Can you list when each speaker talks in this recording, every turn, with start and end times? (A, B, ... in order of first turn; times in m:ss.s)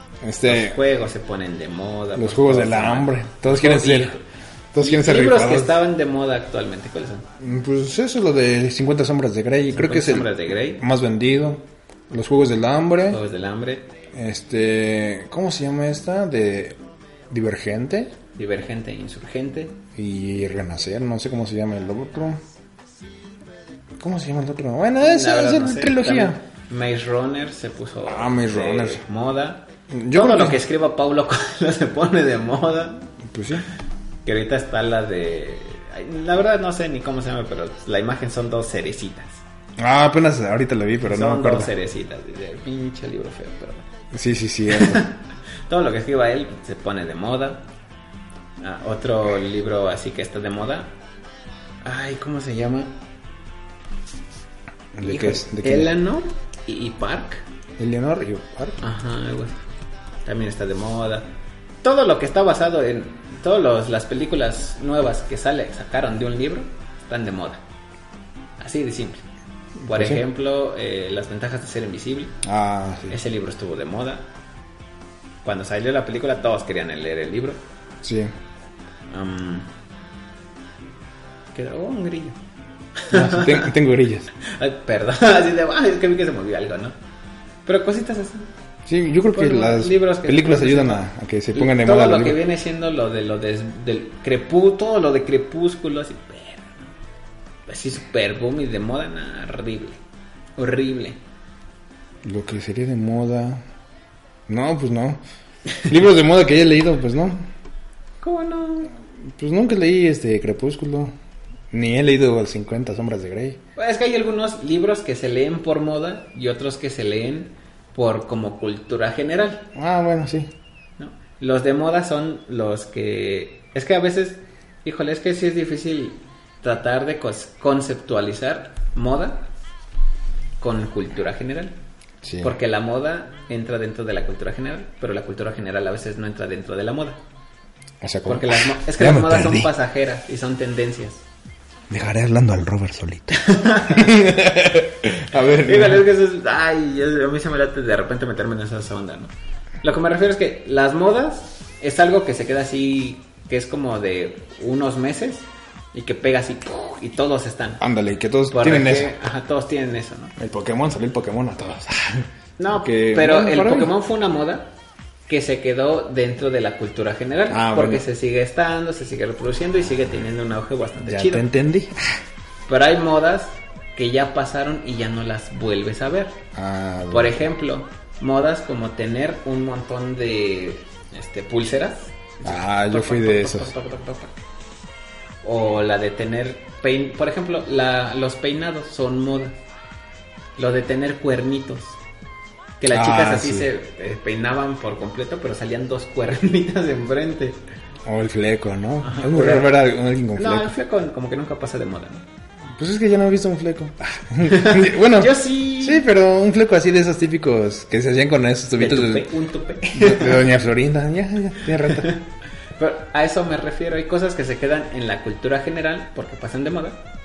0:00.2-0:00.8 A
0:00.4-0:04.2 B
0:02.1-0:04.1 A
0:04.7-0:05.8 A
0:04.8-0:07.3 B
0:07.4-0:13.2 A
0:09.7-0:10.8 B
0:13.1-0:13.9 B
0:14.1-0:18.1 A
0:18.4-0:19.8 B
0:19.9-0:22.4 A
0:24.0-0:26.4 A
0:25.0-0:33.1 B
0:28.0-0:29.0 A
0:29.9-0:30.6 A
0:33.3-0:33.7 A
0:34.2-0:39.4 B
0:39.8-0:41.7 A
0:41.0-0:43.8 B
0:44.1-0:45.0 A
0:44.7-0:47.6 B
0:48.6-0:50.9 B
0:51.8-0:52.9 B
0:54.9-0:55.9 A
0:55.0-0:57.4 B
0:57.8-0:58.8 A
0:58.8-0:59.6 B
1:00.2-1:01.3 B
1:01.8-1:07.6 B
1:08.6-1:09.2 B
1:09.8-1:10.2 A
1:09.8-1:12.4 B
1:12.4-1:13.2 A
1:13.1-1:14.2 B
1:15.4-1:17.6 B
1:18.0-1:18.3 A
1:19.1-1:19.7 B
1:21.5-1:22.4 B
1:23.0-1:23.7 B
1:23.1-1:24.3 A
1:24.4-1:26.9 B
1:27.6-1:28.5 B
1:28.9-1:32.4 A
1:29.3-1:31.0 B
1:31.5-1:36.9 B
1:37.7-1:40.0 B
1:40.6-1:41.2 B
1:42.2-1:43.6 A
1:44.5-1:45.2 A
1:45.8-1:47.5 A
1:48.2-1:48.9 B
1:49.3-1:51.1 A
1:51.7-1:53.6 A
1:53.8-1:59.7 B
1:59.7-2:00.5 A
2:01.0-2:09.5 B
2:10.6-2:11.7 B
2:12.2-2:12.5 A
2:12.4-2:17.2 B
2:18.0-2:19.7 A
2:18.2-2:21.2 B
2:21.9-2:26.0 A
2:23.3-2:24.1 B
2:25.5-2:29.3 B
2:29.8-2:37.8 B
2:37.8-2:39.1 A
2:38.5-2:40.3 B
2:40.4-2:43.9 A
2:42.6-2:44.7 B
2:45.3-2:51.4 B
2:47.5-2:48.0 A
2:51.0-2:52.0 A
2:52.7-2:56.4 B
2:56.5-2:57.4 A
2:57.1-3:04.4 B
3:02.4-3:03.7 A
3:05.4-3:09.6 B
3:10.6-3:12.0 B
3:12.8-3:17.6 B
3:12.9-3:13.7 A
3:18.0-3:20.7 A
3:19.0-3:19.7 B
3:20.4-3:22.2 B
3:22.7-3:29.3 A
3:24.4-3:26.0 B
3:28.8-3:30.4 B
3:29.9-3:32.1 A
3:31.8-3:32.2 B
3:32.8-3:37.0 B